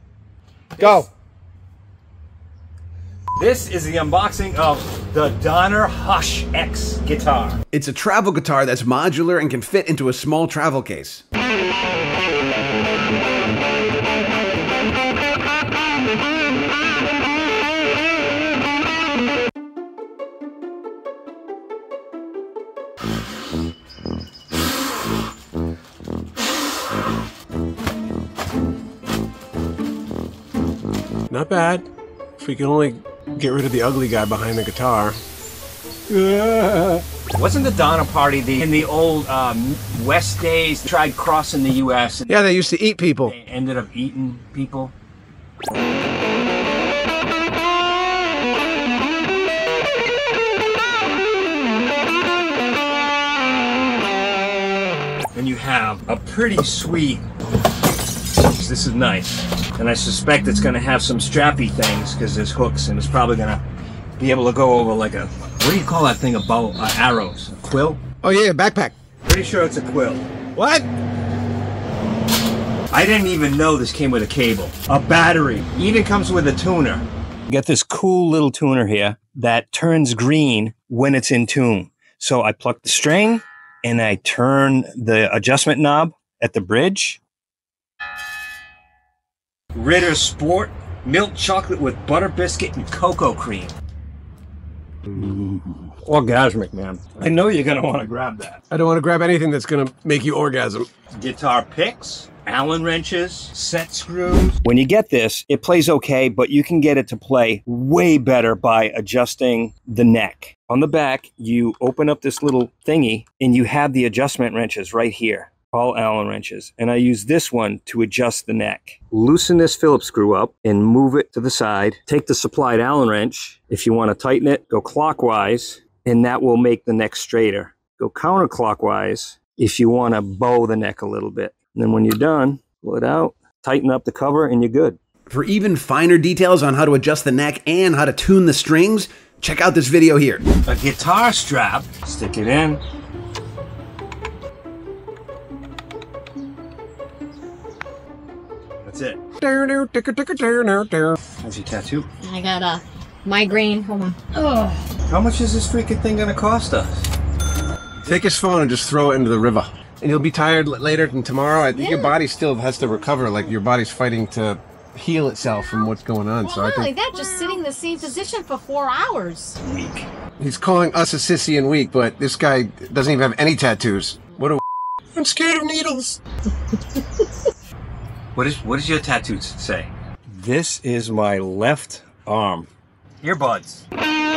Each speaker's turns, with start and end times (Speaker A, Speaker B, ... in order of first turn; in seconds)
Speaker A: 0.7-1.1, 3.4-7.6, 37.3-42.4, 43.2-44.9, 55.3-57.2, 58.4-63.6, 64.2-68.0, 69.2-70.3, 72.9-87.2, 89.7-93.7, 95.1-98.6, 101.1-135.0, 140.7-142.8, 148.8-149.2, 151.4-152.1, 155.0-157.1, 169.6-170.1, 178.3-182.7, 183.2-183.8
Speaker B: 0.8-1.1, 31.3-31.9, 32.4-35.2, 36.1-36.9, 42.3-43.3, 68.2-68.9, 70.5-70.9, 98.7-100.9, 149.4-151.2, 158.0-167.6, 170.4-174.6, 175.1-176.2
Speaker C: 7.7-11.2, 135.3-140.4
Speaker D: 152.2-154.9, 161.7-162.1, 166.4-169.6